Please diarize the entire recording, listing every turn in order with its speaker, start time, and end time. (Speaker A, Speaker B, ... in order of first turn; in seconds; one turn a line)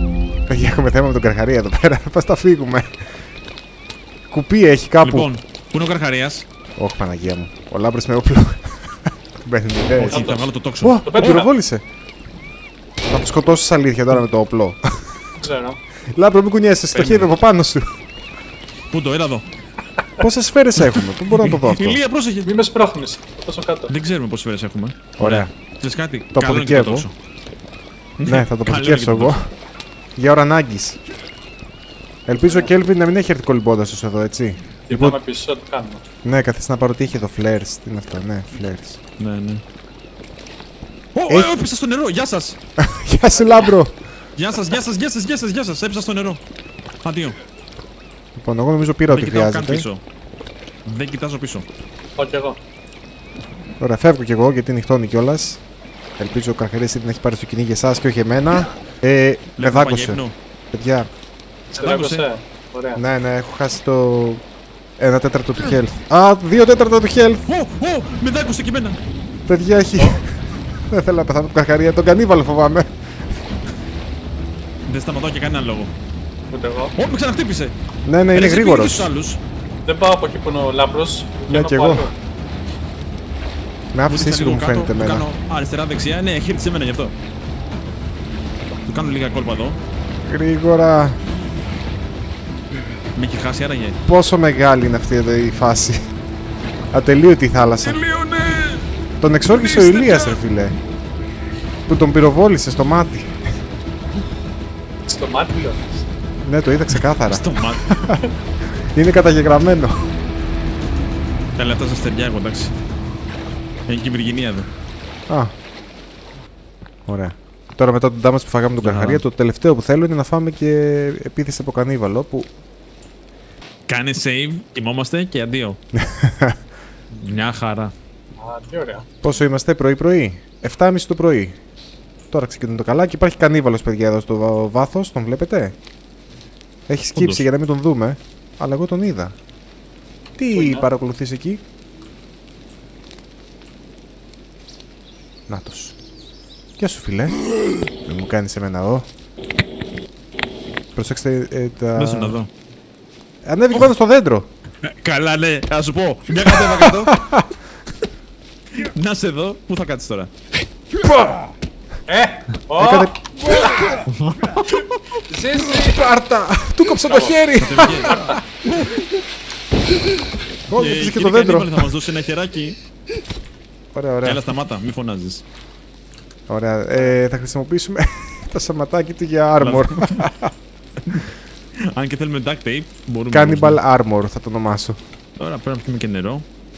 Speaker A: 0.5-3.1
Speaker A: 4.3-5.3
Speaker B: 5.0-6.5
Speaker A: 6.8-11.8
Speaker B: 10.0-11.5
Speaker C: 10.1-10.5
Speaker C: 11.1-11.6
Speaker A: 13.1-15.2
Speaker C: 15.4-15.8
Speaker A: 16.1-18.0
Speaker C: 16.9-17.2
Speaker B: 18.9-19.4
Speaker A: 20.2-22.0
Speaker B: 20.8-22.6
Speaker C: 22.4-23.9
Speaker B: 23.9-27.1
Speaker A: 25.2-25.5
Speaker A: 26.3-27.1
Speaker B: 28.2-29.4
Speaker A: 28.3-29.5
Speaker A: 30.2-31.0
Speaker A: 32.3-35.2
Speaker C: 34.9-36.0
Speaker A: 36.2-39.0
Speaker B: 39.2-39.6
Speaker B: 41.1-42.6
Speaker A: 42.8-44.0
Speaker C: 43.3-43.7
Speaker B: 44.4-46.4
Speaker B: 47.0-47.4
Speaker A: 48.4-49.9
Speaker B: 49.1-50.0
Speaker B: 50.9-51.7
Speaker C: 52.2-52.6
Speaker A: 53.8-55.6
Speaker A: 56.2-61.1
Speaker B: 59.6-60.4
Speaker C: 61.7-63.0
Speaker B: 61.7-62.3
Speaker A: 63.0-64.4
Speaker A: 65.0-67.5
Speaker B: 67.5-69.0
Speaker A: 69.5-73.0
Speaker B: 74.9-75.9
Speaker C: 76.5-77.0
Speaker B: 77.0-77.7
Speaker A: 78.1-79.1
Speaker B: 78.3-79.4
Speaker C: 79.8-82.2
Speaker A: 81.5-82.1
Speaker A: 83.9-85.3
Speaker B: 84.1-87.2
Speaker B: 88.8-89.8
Speaker A: 90.2-91.2
Speaker B: 93.2-94.0
Speaker A: 94.0-96.0
Speaker A: 96.9-98.0
Speaker B: 97.8-98.9
Speaker A: 99.2-100.8
Speaker B: 99.5-100.4
Speaker A: 101.9-103.3
Speaker C: 105.1-106.1
Speaker A: 106.4-108.2
Speaker B: 107.2-108.0
Speaker A: 108.8-110.1
Speaker B: 111.6-112.7
Speaker B: 113.9-114.7
Speaker A: 115.3-115.5
Speaker A: 117.1-122.5
Speaker B: 118.8-119.2
Speaker B: 123.9-125.8
Speaker A: 125.9-126.6
Speaker B: 127.1-127.9
Speaker C: 128.4-129.1
Speaker A: 129.2-131.6
Speaker A: 132.3-135.8
Speaker A: 136.9-139.3
Speaker B: 137.2-137.5
Speaker A: 140.4-141.6
Speaker C: 140.5-140.9
Speaker A: 145.5-146.0
Speaker A: 146.8-147.4
Speaker A: 148.0-149.1
Speaker A: 150.9-152.4
Speaker B: 152.0-152.5
Speaker A: 153.4-154.5
Speaker B: 154.8-157.2
Speaker A: 156.6-157.6
Speaker B: 158.7-160.3
Speaker C: 162.1-163.2
Speaker A: 162.8-164.0
Speaker B: 164.1-164.9
Speaker C: 164.8-166.1
Speaker A: 165.5-168.4
Speaker C: 167.0-168.5
Speaker B: 167.6-168.3
Speaker A: 170.7-171.9
Speaker B: 170.8-172.8
Speaker A: 173.9-174.4
Speaker B: 174.2-175.4
Speaker A: 176.5-180.5
Speaker B: 179.6-180.3
Speaker B: 181.9-183.8
Speaker A: 183.3-185.0
Speaker B: 185.4-186.5